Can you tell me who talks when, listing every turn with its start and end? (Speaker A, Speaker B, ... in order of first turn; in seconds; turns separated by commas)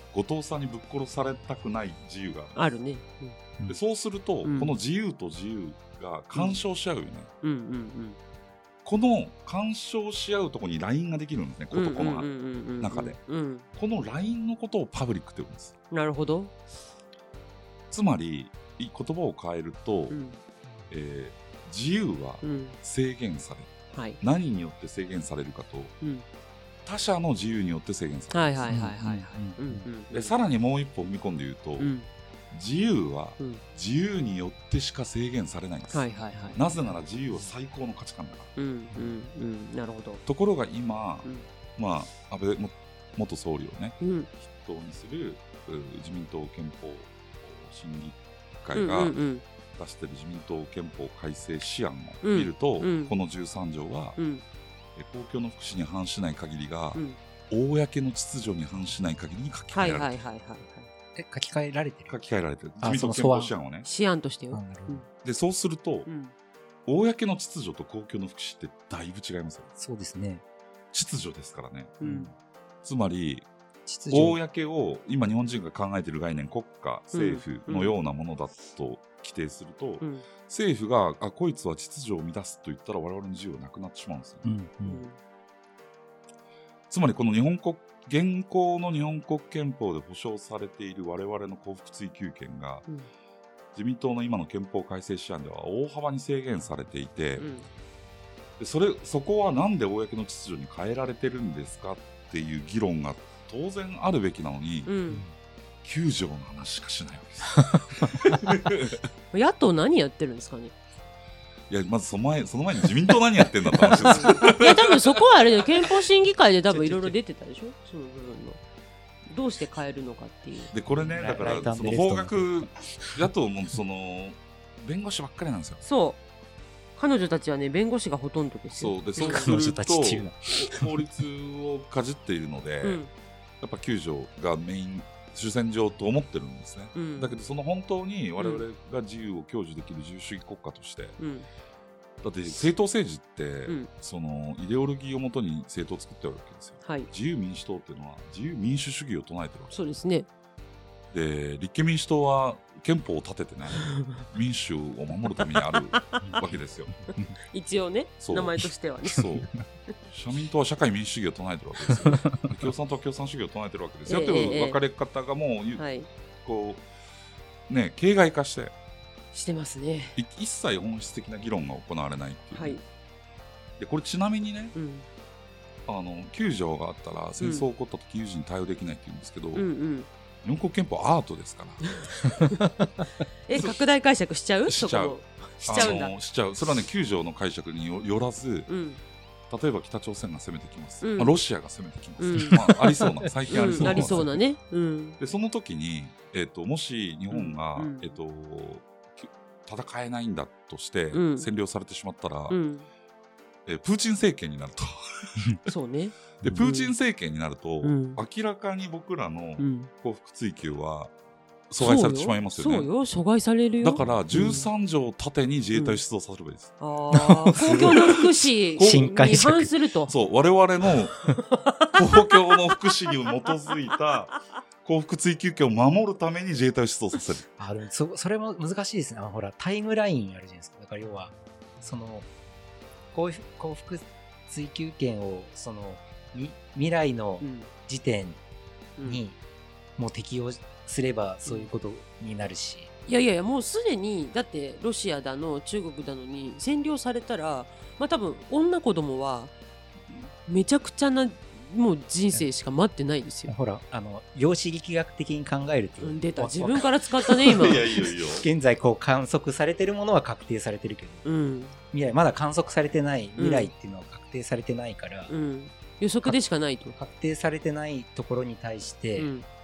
Speaker A: 0.1-2.7, Speaker B: 2.5-3.4, Speaker A: 3.7-7.3, Speaker B: 4.4-4.7, Speaker B: 6.3-6.6, Speaker B: 7.4-8.2, Speaker A: 8.8-13.2, Speaker B: 11.7-13.7, Speaker A: 13.8-15.8, Speaker B: 15.9-16.5, Speaker A: 17.9-20.2, Speaker B: 20.1-20.4, Speaker A: 20.9-25.9, Speaker B: 22.4-22.8, Speaker B: 23.9-24.2, Speaker A: 26.9-28.8, Speaker B: 28.3-30.3, Speaker C: 28.7-29.9, Speaker A: 30.1-31.9, Speaker B: 31.8-32.1, Speaker A: 32.5-38.5, Speaker B: 35.9-36.6, Speaker B: 38.6-40.2, Speaker A: 40.3-49.2, Speaker B: 44.0-44.3, Speaker B: 48.8-49.4, Speaker A: 49.8-54.2, Speaker B: 52.2-53.1, Speaker B: 54.2-54.4, Speaker A: 55.0-60.1, Speaker B: 59.7-60.9, Speaker C: 61.2-62.1, Speaker A: 62.1-63.9, Speaker C: 62.8-63.5, Speaker B: 63.8-65.1, Speaker C: 64.5-65.0, Speaker A: 65.2-66.1, Speaker B: 66.1-66.3, Speaker A: 66.9-69.7, Speaker C: 69.8-70.4, Speaker A: 70.9-72.0, Speaker B: 72.0-72.3, Speaker C: 72.0-72.3, Speaker A: 72.8-73.5, Speaker C: 73.9-74.4, Speaker A: 74.1-84.5, Speaker B: 77.1-78.0, Speaker C: 84.4-85.0, Speaker B: 84.9-85.2, Speaker A: 86.9-92.9, Speaker A: 93.7-97.5, Speaker B: 97.4-97.7, Speaker A: 98.6-104.9, Speaker B: 104.9-105.2, Speaker A: 105.8-109.0, Speaker C: 107.6-108.4, Speaker B: 109.3-110.7, Speaker A: 111.7-115.2, Speaker C: 113.8-114.3, Speaker B: 114.0-118.6, Speaker A: 116.8-117.1, Speaker B: 119.2-120.7, Speaker A: 120.7-125.8, Speaker C: 120.9-123.1, Speaker B: 125.8-126.2, Speaker B: 127.0-129.5, Speaker A: 128.8-133.0, Speaker C: 129.2-131.1, Speaker B: 132.8-133.1, Speaker A: 133.6-141.2, Speaker B: 136.9-137.3, Speaker B: 138.4-138.6, Speaker B: 141.2-141.5, Speaker A: 142.2-149.8, Speaker B: 146.8-147.1, Speaker B: 149.7-150.3, Speaker A: 151.1-157.0, Speaker B: 153.8-154.2, Speaker B: 155.9-156.4, Speaker C: 156.2-156.6, Speaker C: 157.1-157.3, Speaker B: 157.5-159.3, Speaker A: 158.2-165.9, Speaker C: 162.0-162.5, Speaker B: 164.1-164.8, Speaker B: 165.8-166.1, Speaker A: 166.4-166.8, Speaker A: 167.7-168.7, Speaker B: 169.3-170.2, Speaker A: 170.2-172.8, Speaker B: 172.5-172.8, Speaker A: 173.8-174.8, Speaker B: 174.8-175.1, Speaker A: 175.9-179.7, Speaker B: 177.4-177.7, Speaker B: 179.6-180.1, Speaker A: 180.4-182.0, Speaker B: 181.9-182.6, Speaker B: 183.5-186.1, Speaker A: 183.5-183.8, Speaker A: 184.7-188.7, Speaker B: 188.7-189.0, Speaker A: 189.5-194.3, Speaker B: 191.0-191.4, Speaker B: 192.2-192.7, Speaker C: 192.4-194.4, Speaker B: 193.5-195.2, Speaker A: 195.2-202.6, Speaker B: 197.3-198.2, Speaker B: 201.1-201.5, Speaker B: 202.5-202.9, Speaker A: 203.7-205.7, Speaker B: 205.7-206.9, Speaker A: 206.4-211.1, Speaker B: 207.8-208.2, Speaker B: 209.6-209.9, Speaker A: 211.7-212.9, Speaker B: 211.8-214.7, Speaker A: 213.8-216.8, Speaker C: 214.0-214.6, Speaker B: 215.7-216.0, Speaker B: 216.8-220.1, Speaker C: 217.2-218.2, Speaker A: 217.6-218.1, Speaker C: 218.8-219.7, Speaker A: 218.8-219.1, Speaker A: 220.1-221.3, Speaker B: 221.7-222.3, Speaker A: 221.9-227.5, Speaker C: 227.6-232.3, Speaker C: 233.1-238.4, Speaker B: 237.4-237.7, Speaker B: 239.0-239.2, Speaker C: 239.1-239.4, Speaker C: 240.0-242.9, Speaker B: 243.1-249.5, Speaker B: 250.1-253.5, Speaker C: 253.5-261.3, Speaker B: 256.0-257.9, Speaker A: 257.5-258.5, Speaker B: 261.2-261.8, Speaker C: 261.9-265.3, Speaker B: 263.4-263.7, Speaker B: 265.3-267.0, Speaker C: 267.0-269.3, Speaker B: 269.2-269.5